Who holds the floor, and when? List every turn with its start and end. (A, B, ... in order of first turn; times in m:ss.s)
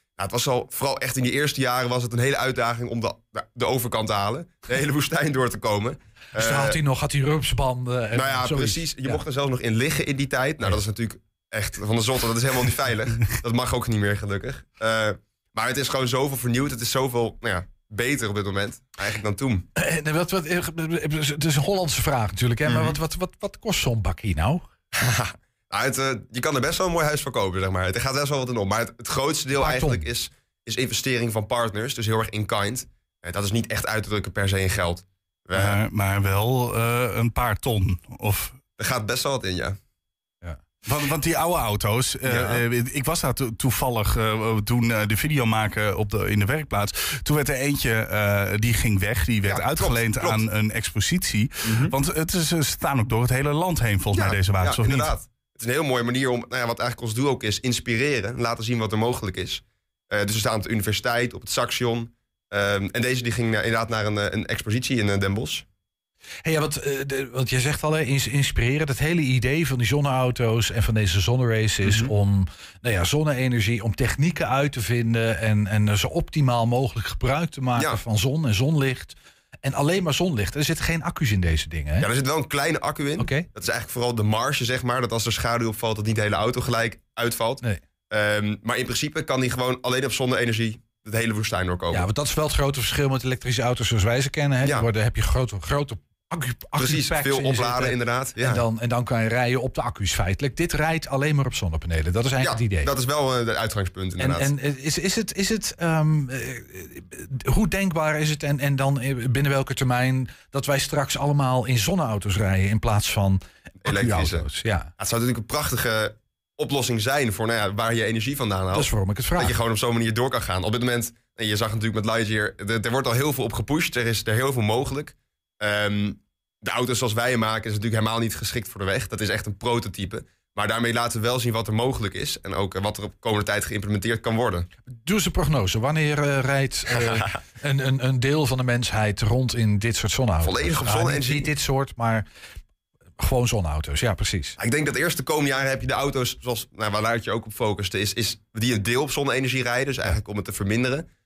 0:00.2-0:06.8 A
0:06.4-0:09.2 B
0:08.1-0:19.6 A
0:19.8-0:24.7 B
0:22.6-0:23.0 A
0:24.9-0:35.8 A
0:29.6-0:30.1 B
0:35.5-0:38.6 C
0:38.8-0:39.8 A
0:40.8-0:55.1 C
0:42.2-0:42.6 A
0:49.4-0:50.4 A
0:51.7-0:51.9 A
0:54.1-1:05.6 A
1:06.4-1:22.1 B
1:11.8-1:12.1 A
1:17.8-1:18.0 A
1:22.0-1:32.1 A
1:23.2-1:23.5 B
1:31.9-1:42.9 B
1:34.6-1:34.9 A
1:36.8-1:38.6 A
1:42.4-1:44.5 A
1:44.2-1:54.9 B
1:53.8-2:14.7 A
1:58.7-1:59.6 B
2:15.0-2:22.3 B
2:16.9-2:17.4 A
2:20.4-2:21.5 A
2:23.2-2:24.6 B
2:24.6-2:31.1 A